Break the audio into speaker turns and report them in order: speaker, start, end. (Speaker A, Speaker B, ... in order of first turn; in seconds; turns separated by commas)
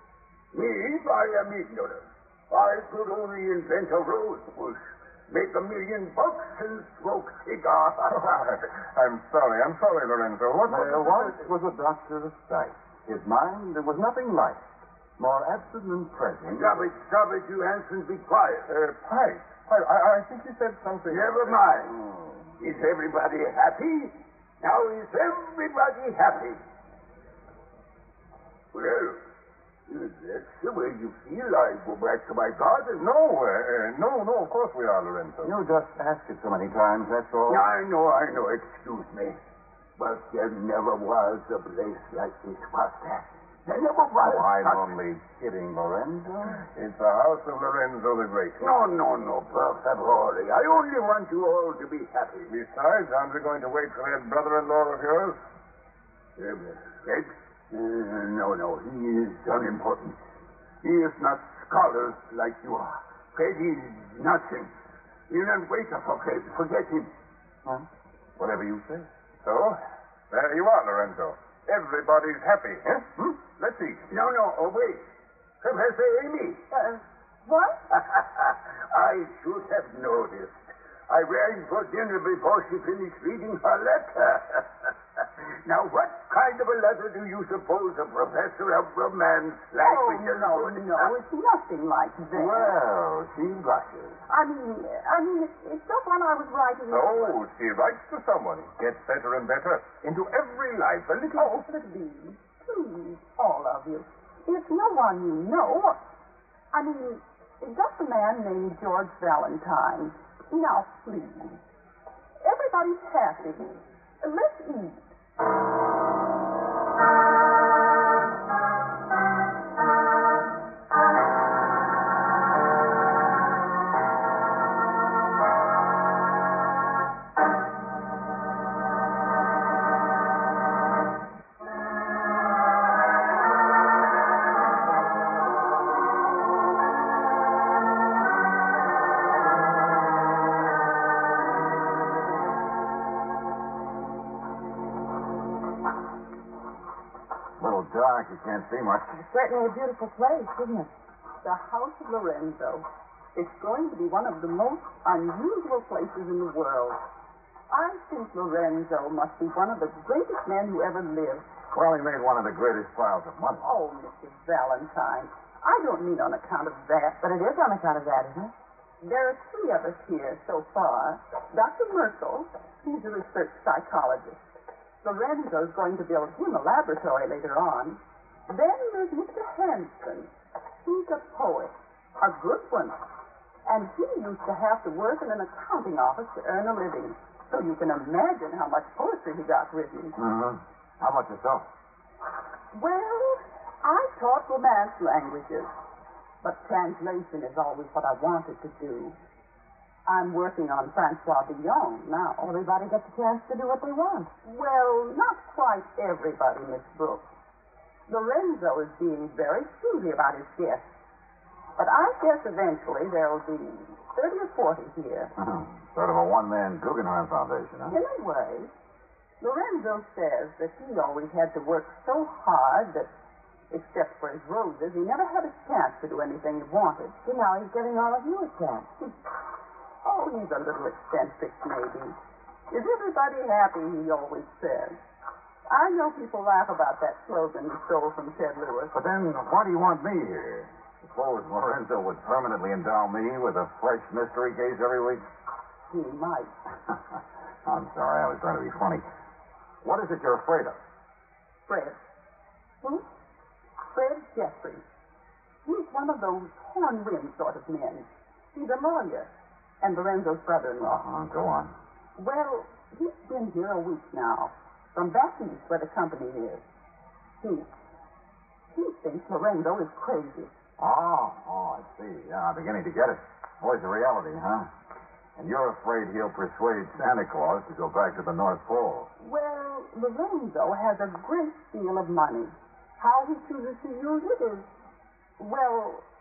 Speaker A: 0.5-8.3, Speaker B: 8.1-11.4, Speaker C: 10.6-14.6, Speaker C: 15.2-16.8, Speaker A: 16.5-18.7, Speaker B: 18.6-21.8, Speaker A: 21.1-22.0, Speaker A: 22.6-26.6, Speaker A: 28.7-29.2, Speaker A: 29.9-33.1, Speaker B: 32.9-35.5, Speaker C: 35.4-37.7, Speaker A: 37.5-39.4, Speaker A: 40.0-44.9, Speaker C: 44.2-46.6, Speaker B: 46.7-48.8, Speaker A: 48.6-52.5, Speaker B: 52.5-55.4, Speaker A: 56.4-60.2, Speaker A: 60.8-64.7, Speaker A: 65.3-67.1, Speaker B: 69.4-69.8, Speaker B: 70.3-74.1, Speaker A: 74.1-75.0, Speaker A: 75.6-76.7, Speaker D: 76.7-77.8, Speaker A: 77.9-84.6, Speaker A: 85.6-91.1, Speaker D: 89.8-92.8, Speaker D: 94.3-97.4, Speaker B: 96.9-101.5, Speaker D: 101.3-106.0, Speaker D: 106.7-111.5, Speaker D: 112.4-115.1, Speaker E: 147.6-149.2, Speaker F: 149.1-150.9, Speaker D: 151.4-157.0, Speaker D: 157.7-161.4, Speaker E: 161.7-163.7, Speaker D: 163.6-167.2, Speaker F: 167.2-168.5, Speaker D: 169.0-180.3, Speaker D: 180.8-183.0, Speaker D: 183.7-190.2, Speaker E: 190.2-191.7, Speaker D: 192.7-195.7, Speaker D: 196.4-199.2, Speaker D: 200.1-202.5, Speaker F: 202.4-204.3, Speaker D: 204.4-207.3, Speaker D: 208.1-210.8, Speaker D: 211.8-215.3, Speaker E: 215.3-218.0, Speaker D: 217.9-218.7, Speaker D: 219.4-223.1, Speaker D: 223.7-227.2, Speaker F: 227.2-228.9, Speaker D: 230.0-232.2, Speaker D: 232.7-235.0, Speaker D: 235.7-238.9, Speaker E: 238.9-245.2, Speaker D: 245.9-246.5, Speaker E: 247.7-249.1, Speaker E: 249.8-250.8, Speaker D: 251.7-252.0, Speaker D: 253.9-254.8, Speaker D: 255.6-261.0, Speaker E: 260.8-261.7, Speaker D: 262.2-266.6, Speaker D: 267.4-267.7, Speaker D: 268.7-270.5, Speaker E: 270.8-274.7, Speaker E: 275.4-279.1, Speaker D: 279.2-284.7, Speaker D: 285.4-286.0